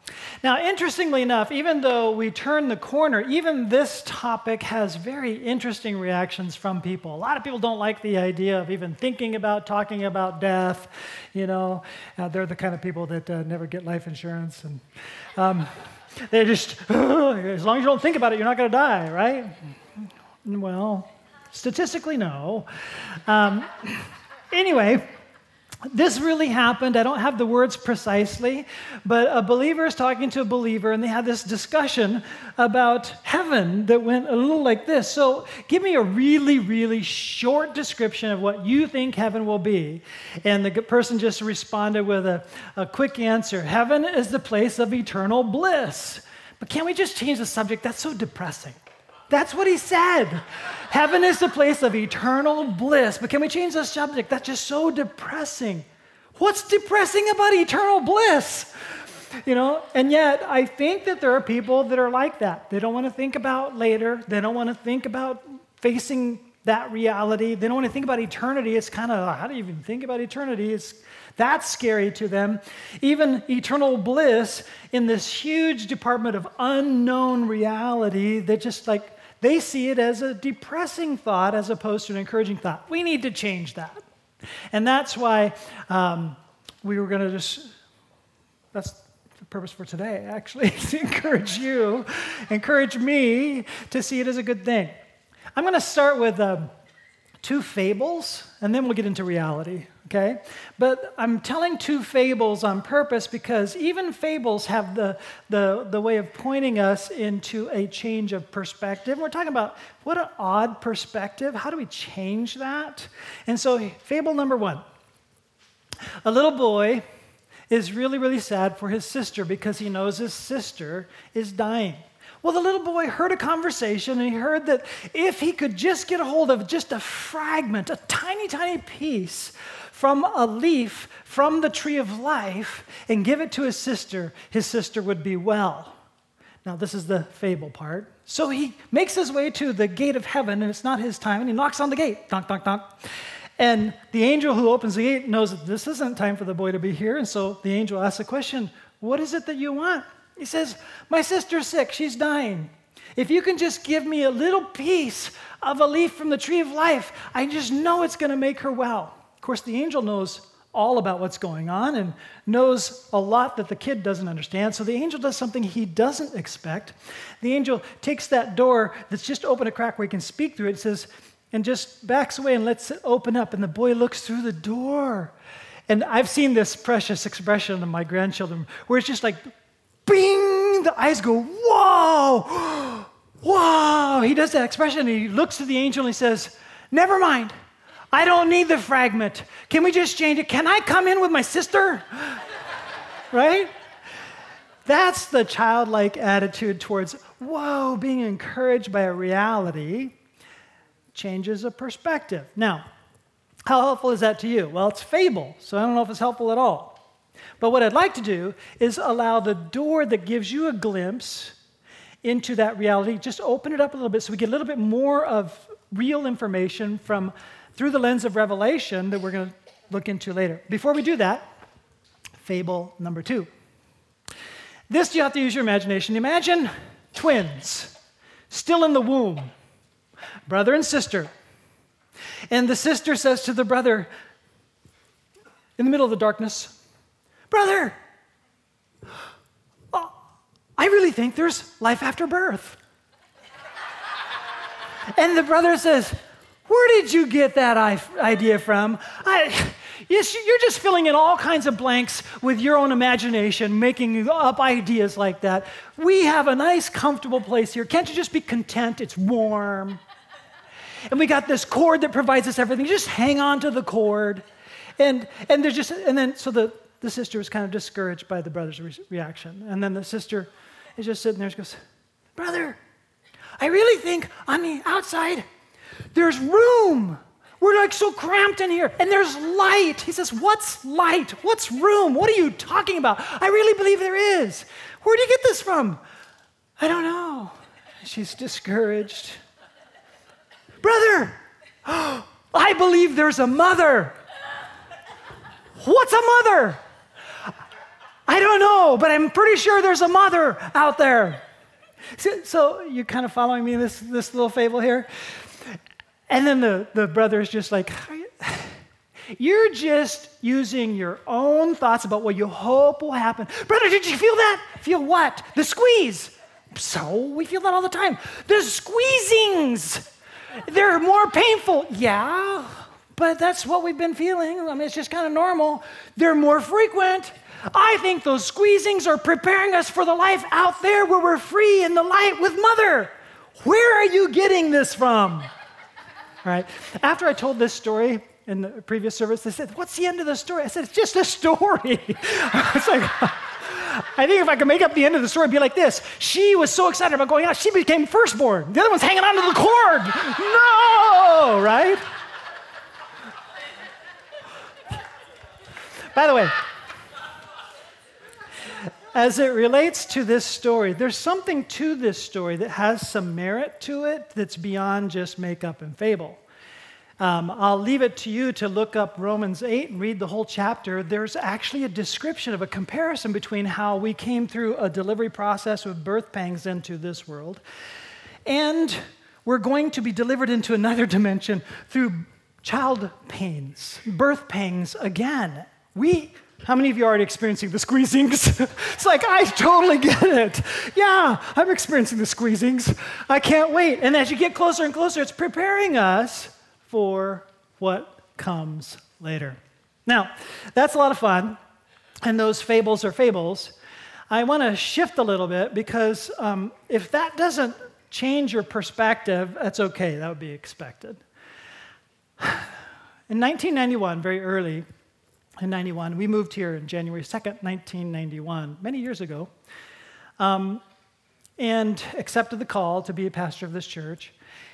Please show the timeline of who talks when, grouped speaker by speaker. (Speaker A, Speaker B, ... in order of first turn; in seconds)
Speaker A: 0.4-14.8, 15.3-19.7, 20.4-25.1, 25.9-84.0, 84.7-87.7, 88.7-94.9, 95.5-96.7, 97.4-114.8, 116.2-117.0, 117.7-136.0, 136.6-143.1, 143.6-175.3, 175.9-179.5, 180.1-187.5, 188.1-192.4, 193.3-193.7, 194.8-200.1, 201.1-202.8, 203.7-207.0, 207.6-211.6, 212.2-221.5, 222.4-223.5, 224.9-227.9, 228.5-229.5, 230.5-231.3, 232.5-234.1, 235.8-236.8, 237.5-238.0, 240.8-242.8, 245.1-260.0, 261.1-264.4, 265.0-271.8, 272.4-272.8, 273.6-275.4, 276.1-286.0, 286.8-289.4, 290.8-294.1, 295.8-296.8, 298.3-301.4, 302.1-308.8, 309.3-320.1, 320.7-335.5, 336.4-352.0, 356.1-356.6, 359.1-366.4, 367.2-377.6, 378.4-401.6, 402.2-403.8, 404.3-411.2, 412.4-412.7, 413.3-414.8, 415.6-419.5, 420.4-420.8, 421.6-424.3